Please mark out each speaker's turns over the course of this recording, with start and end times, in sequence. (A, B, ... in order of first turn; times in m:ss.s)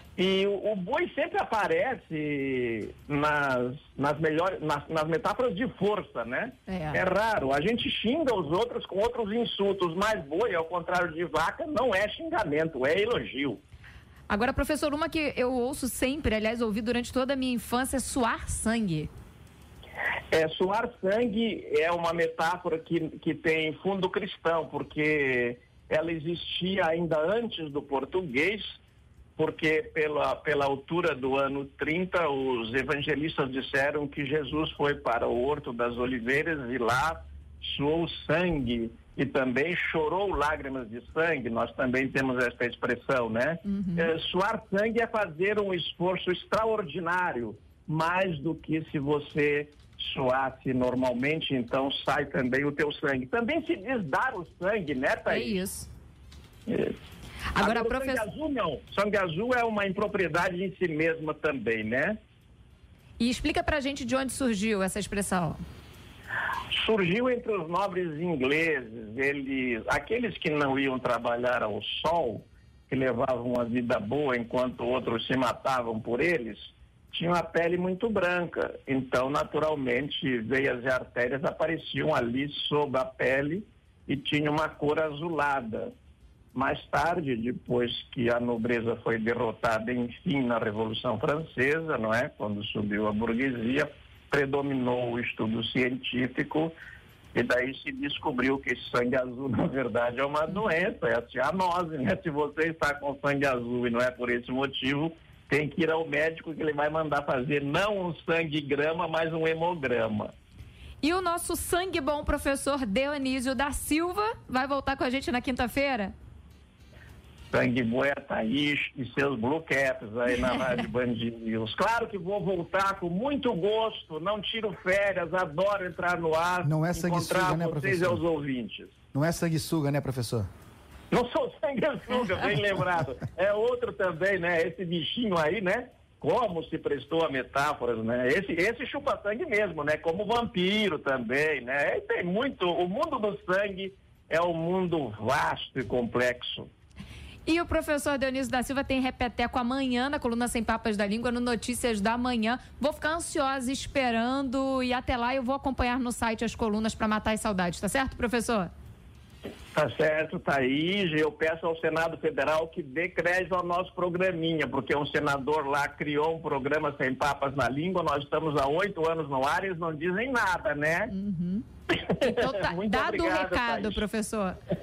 0:00.2-0:13.6 A
0:06.7-0:07.0 B
0:14.3-0:19.1 B
0:20.3-0:28.8 A
0:29.4-0:55.6 A
0:43.7-0:44.1 B
0:55.3-0:55.9 B
0:56.7-0:57.0 A
0:57.5-0:58.2 B
0:57.6-1:02.2 A
1:03.2-1:05.6 B
1:06.7-1:25.9 A
1:26.5-1:36.7 A
1:37.3-1:50.3 A
1:51.0-1:56.1 B
1:57.5-2:08.9 A
2:06.6-2:08.2 C
2:09.1-2:10.5 C
2:11.1-2:26.7 A
2:27.4-2:38.7 B
2:39.7-2:51.1 A
2:51.1-2:51.6 B
2:51.9-2:54.0 A
2:52.2-2:54.6 B